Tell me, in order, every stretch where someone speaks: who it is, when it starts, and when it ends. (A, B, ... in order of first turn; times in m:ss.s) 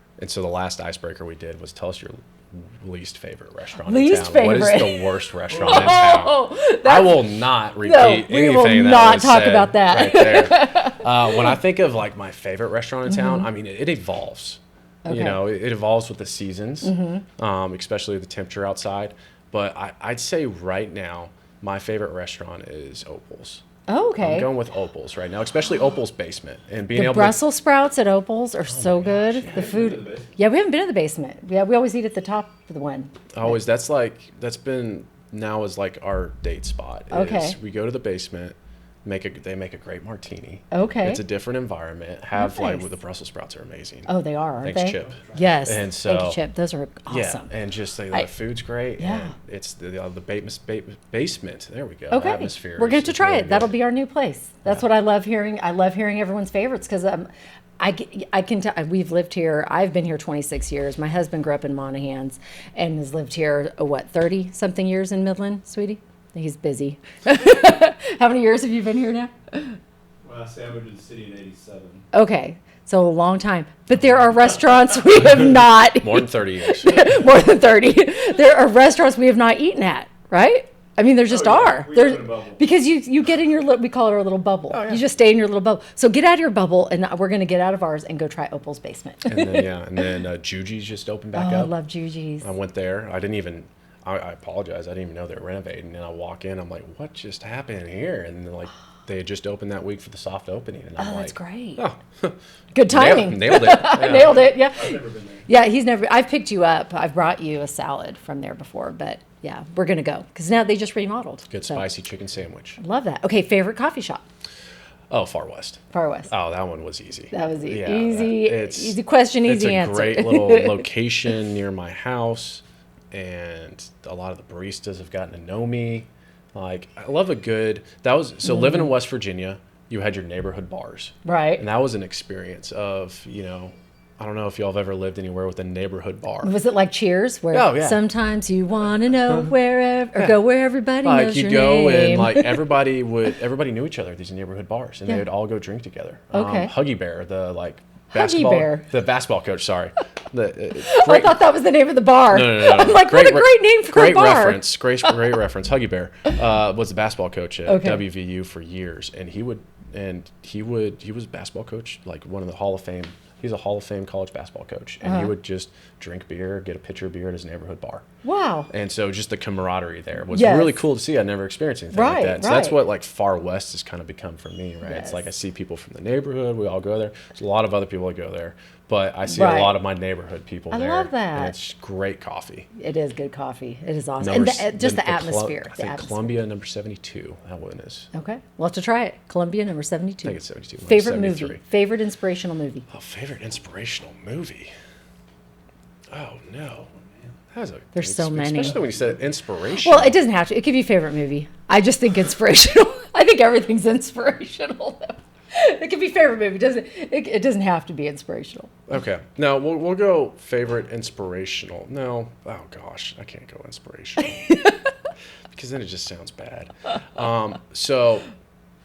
0:00.2-0:23.6 A
0:03.8-0:11.3 B
0:13.1-0:13.5 B
0:15.1-0:15.4 B
0:16.8-0:17.2 B
0:23.9-0:24.5 B
0:24.2-0:27.4 A
0:26.9-0:33.6 B
0:28.7-0:29.5 A
0:29.5-0:30.3 C
0:33.4-0:44.1 A
0:37.1-0:37.6 B
0:40.7-0:41.2 B
0:42.4-0:42.9 B
0:44.1-0:47.5 B
0:44.6-0:46.4 A
0:47.1-0:53.8 A
0:49.0-0:49.4 B
0:52.1-1:09.8 B
1:10.2-1:12.0 C
1:12.1-1:29.7 B
1:15.5-1:17.2 A
1:21.3-1:22.6 C
1:29.2-1:31.7 A
1:31.3-1:32.5 B
1:32.4-1:42.4 A
1:41.0-1:41.8 B
1:42.7-1:51.8 B
1:42.9-1:44.6 A
1:44.2-1:45.4 C
1:51.5-1:52.8 A
1:52.8-1:54.3 B
1:55.1-2:16.6 A
1:55.9-1:56.3 B
1:57.3-2:00.9 B
2:08.5-2:08.9 B
2:11.2-2:11.6 B
2:16.4-2:22.6 B
2:17.5-2:18.0 A
2:21.0-2:31.4 A
2:26.3-2:26.7 B
2:28.1-2:28.9 B
2:30.8-2:34.7 B
2:32.3-2:48.0 A
2:37.7-2:38.0 B
2:45.0-2:45.3 B
2:48.2-2:48.7 B
2:48.7-3:02.7 A
2:50.3-2:50.8 B
2:51.9-2:52.8 B
2:54.8-2:55.2 B
2:59.3-2:59.8 B
3:00.7-3:01.6 B
3:02.8-3:06.4 B
3:04.2-3:08.1 A
3:08.1-3:12.9 B
3:10.2-3:11.6 A
3:12.9-3:14.7 A
3:16.1-3:16.9 A
3:17.5-3:20.2 A
3:17.9-3:18.8 B
3:19.8-3:28.7 B
3:28.9-3:34.6 A
3:35.5-3:38.3 A